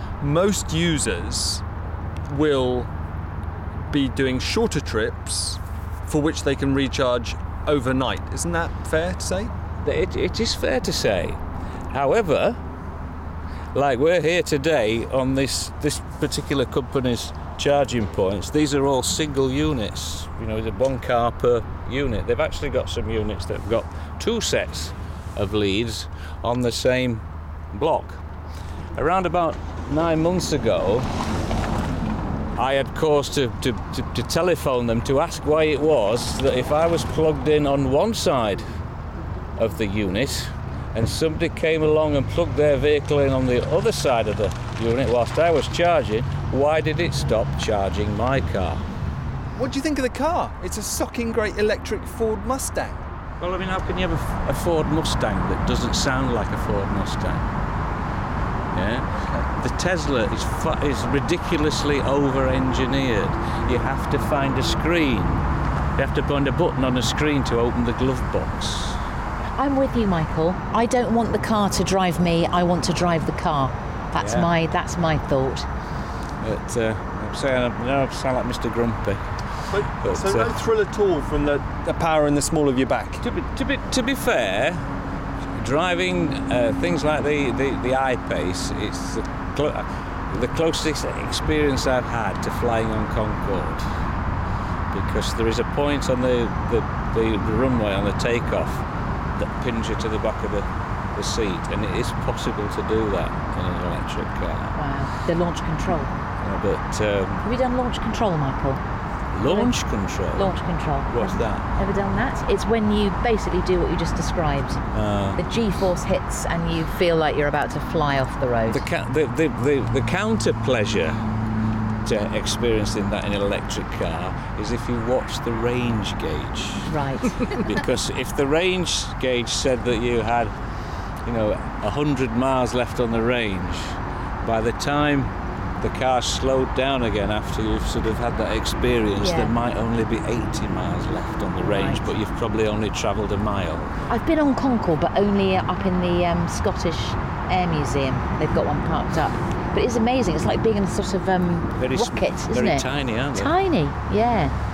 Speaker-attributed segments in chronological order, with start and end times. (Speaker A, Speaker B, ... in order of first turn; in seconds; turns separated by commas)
Speaker A: 0.2-1.6, Speaker A: 2.3-2.9, Speaker A: 3.9-9.5, Speaker B: 9.8-12.6, Speaker B: 13.7-28.2, Speaker B: 28.9-31.1, Speaker B: 32.5-38.7, Speaker B: 39.6-48.8, Speaker A: 49.5-53.0, Speaker B: 53.4-57.5, Speaker B: 58.7-65.5, Speaker A: 59.2-59.5, Speaker B: 66.0-69.0, Speaker C: 69.5-75.7, Speaker B: 74.2-74.5, Speaker B: 76.4-79.2, Speaker A: 79.7-83.2, Speaker B: 80.0-80.5, Speaker B: 83.2-84.8, Speaker B: 85.5-93.8, Speaker B: 94.9-98.8, Speaker B: 99.3-104.8, Speaker C: 104.7-106.1, Speaker B: 106.4-107.5, Speaker C: 107.4-108.8, Speaker B: 109.3-110.5, Speaker C: 109.4-109.8, Speaker C: 110.3-114.8, Speaker B: 111.1-111.6, Speaker B: 114.9-115.4, Speaker C: 115.4-118.9, Speaker B: 118.7-121.2, Speaker B: 122.0-130.5, Speaker C: 126.8-127.5, Speaker B: 131.2-143.9, Speaker C: 139.2-139.5, Speaker C: 141.6-142.0, Speaker C: 144.1-154.5, Speaker B: 151.8-153.5